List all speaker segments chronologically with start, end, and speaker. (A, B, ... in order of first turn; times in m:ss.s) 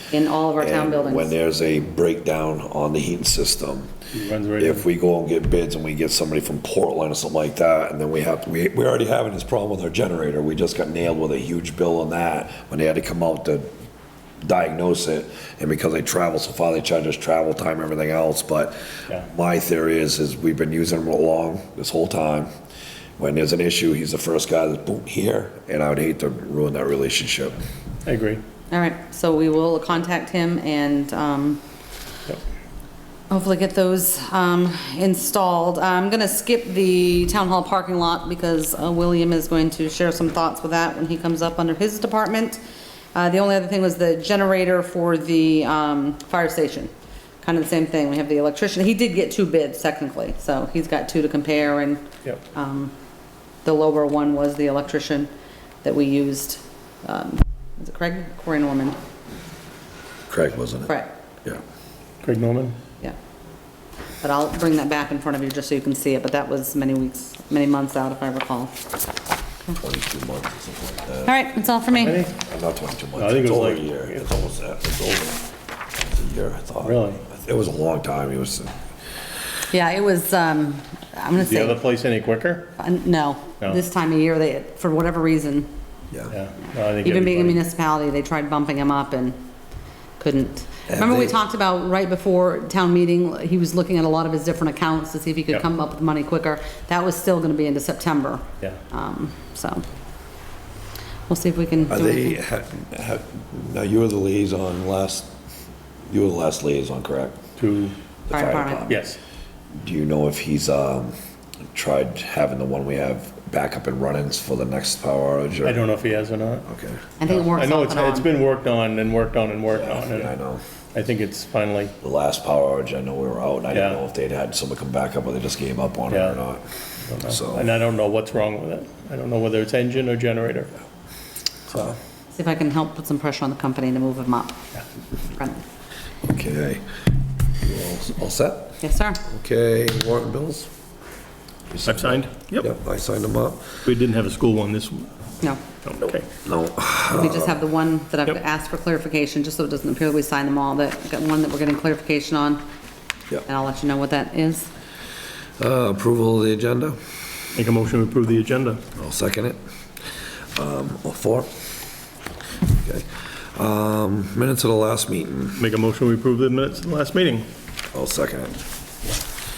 0:00.1-0:01.3 A
0:00.6-0:03.9 B
0:04.1-0:04.8 C
0:04.6-0:13.7 B
0:14.4-0:22.5 B
0:23.2-0:27.6 B
0:28.0-0:28.4 C
0:28.7-0:31.6 A
0:33.3-0:42.6 A
0:43.1-0:46.9 A
0:47.4-0:52.9 A
0:53.6-0:55.3 A
0:55.8-0:59.0 A
1:00.3-1:00.9 B
1:02.2-1:02.8 C
1:04.2-1:08.8 A
1:09.8-1:11.3 B
1:11.2-1:12.2 A
1:12.0-1:12.3 C
1:12.2-1:15.4 B
1:13.2-1:14.2 C
1:16.0-1:18.7 B
1:16.8-1:17.2 C
1:19.7-1:21.8 A
1:21.4-1:22.7 C
1:22.8-1:25.7 A
1:26.3-1:27.6 C
1:27.0-1:29.4 A
1:30.2-1:39.8 A
1:30.9-1:31.4 B
1:41.3-1:42.4 A
1:41.9-1:45.3 B
1:46.1-1:47.4 B
1:47.6-1:48.0 C
1:48.3-1:49.0 B
1:48.3-1:48.9 A
1:48.9-1:49.2 C
1:49.8-1:51.1 B
1:51.7-1:55.8 B
1:55.6-1:56.6 C
1:56.7-1:57.0 B
1:57.2-1:58.3 A
1:57.3-2:00.3 C
1:59.7-2:00.6 B
2:00.9-2:01.9 C
2:02.0-2:06.7 B
2:03.7-2:04.0 C
2:06.1-2:06.4 C
2:07.1-2:10.7 C
2:07.2-2:07.7 B
2:12.3-2:14.6 A
2:15.2-2:15.6 A
2:16.2-2:16.8 B
2:17.6-2:20.7 B
2:18.8-2:19.2 A
2:21.7-2:23.8 B
2:21.9-2:22.7 C
2:23.9-2:25.1 C
2:25.8-2:26.2 C
2:26.4-2:27.5 B
2:27.1-2:32.6 A
2:33.4-2:34.7 A
2:35.6-2:37.0 B
2:37.6-2:38.8 C
2:39.0-2:39.6 B
2:40.6-2:41.5 B
2:42.7-2:45.6 B
2:45.6-2:47.4 C
2:47.9-2:48.6 B